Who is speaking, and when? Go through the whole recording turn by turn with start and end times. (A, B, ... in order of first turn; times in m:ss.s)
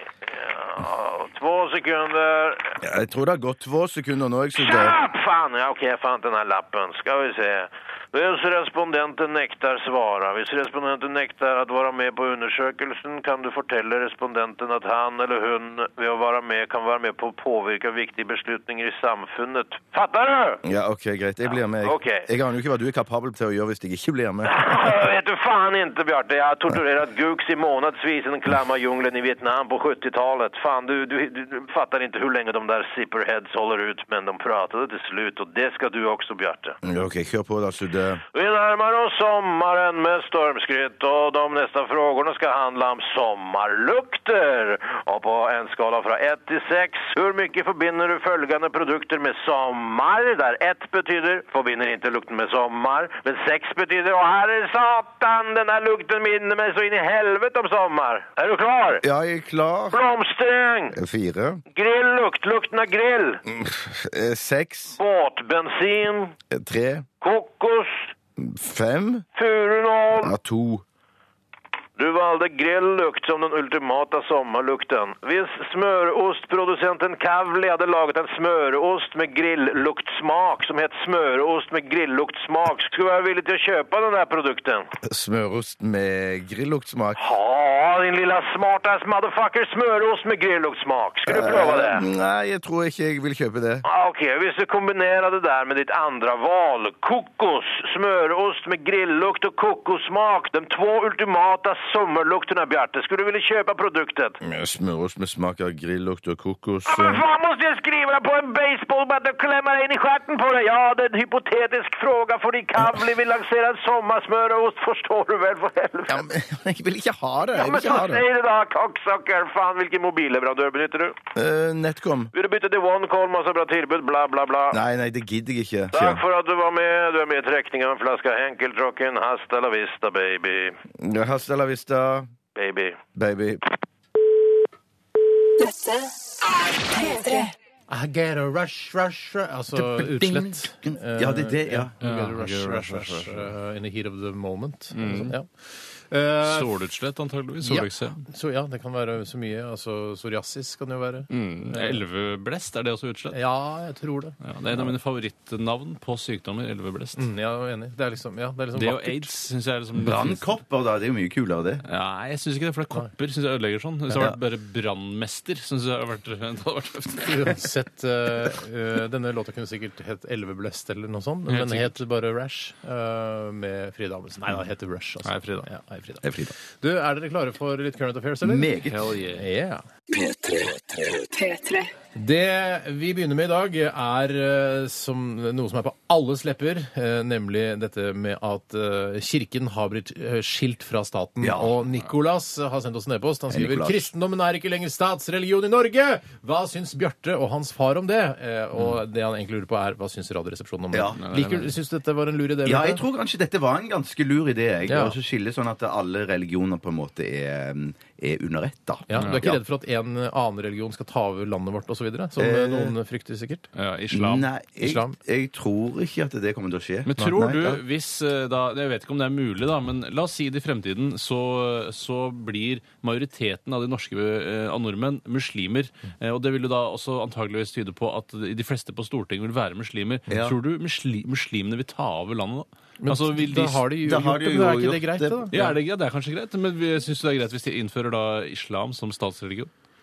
0:00.3-0:02.8 A
0:02.8-0:05.0 B
0:04.6-0:20.6 A
0:20.6-0:24.7 B
0:21.8-0:22.2 A
0:24.4-0:36.8 A
0:36.8-0:38.2 B
0:38.3-0:59.0 A
0:59.0-1:00.0 B
0:59.9-1:00.9 A
1:00.9-1:01.6 B
1:01.7-1:03.4 A
1:03.4-1:05.0 B
1:05.0-1:06.3 A
1:06.5-1:07.0 B
1:07.2-1:08.1 A
1:08.4-1:09.2 B
1:09.4-1:10.3 A
1:10.2-1:10.8 B
1:12.0-1:24.9 A
1:25.0-1:27.2 B
1:27.2-1:32.0 A
1:31.2-1:33.8 B
1:33.8-1:44.4 A
1:44.4-1:47.2 B
1:46.8-1:56.2 A
1:56.1-1:58.2 B
1:57.5-2:01.2 A
2:01.3-2:02.3 B
2:02.3-2:04.8 A
2:04.7-2:06.2 B
2:05.9-2:10.8 A
2:11.0-2:12.3 B
2:12.5-2:13.0 A
2:13.1-2:13.6 B
2:15.6-2:17.5 C
2:17.9-2:26.7 D
2:19.7-2:21.9 B
2:22.0-2:23.5 E
2:24.9-2:25.3 E
2:26.4-2:28.2 E
2:27.6-2:32.0 D
2:31.3-2:33.4 E
2:33.3-2:34.4 D
2:34.4-2:37.2 E
2:37.2-2:39.3 D
2:38.7-2:40.4 E
2:40.0-2:41.8 B
2:41.8-2:47.6 E
2:44.1-2:44.4 B
2:47.2-2:56.2 D
2:51.5-2:52.0 E
2:55.2-2:55.7 E
2:56.2-2:56.5 B
2:56.8-2:58.7 D
2:58.4-2:59.1 B
2:58.8-2:59.4 E
2:59.3-2:59.8 D
3:00.1-3:01.9 C
3:02.1-3:23.0 D
3:11.4-3:11.7 B
3:13.5-3:14.1 B
3:20.9-3:21.2 B
3:21.2-3:21.7 E
3:22.6-3:29.6 B
3:24.9-3:25.2 D
3:29.1-3:33.7 D
3:32.4-3:32.9 B
3:33.7-3:34.5 E
3:34.1-3:37.8 B
3:34.8-3:35.2 D
3:37.0-3:53.8 E
3:50.3-3:50.5 B
3:53.0-3:55.7 D
3:54.0-3:55.5 B
3:55.5-3:59.7 E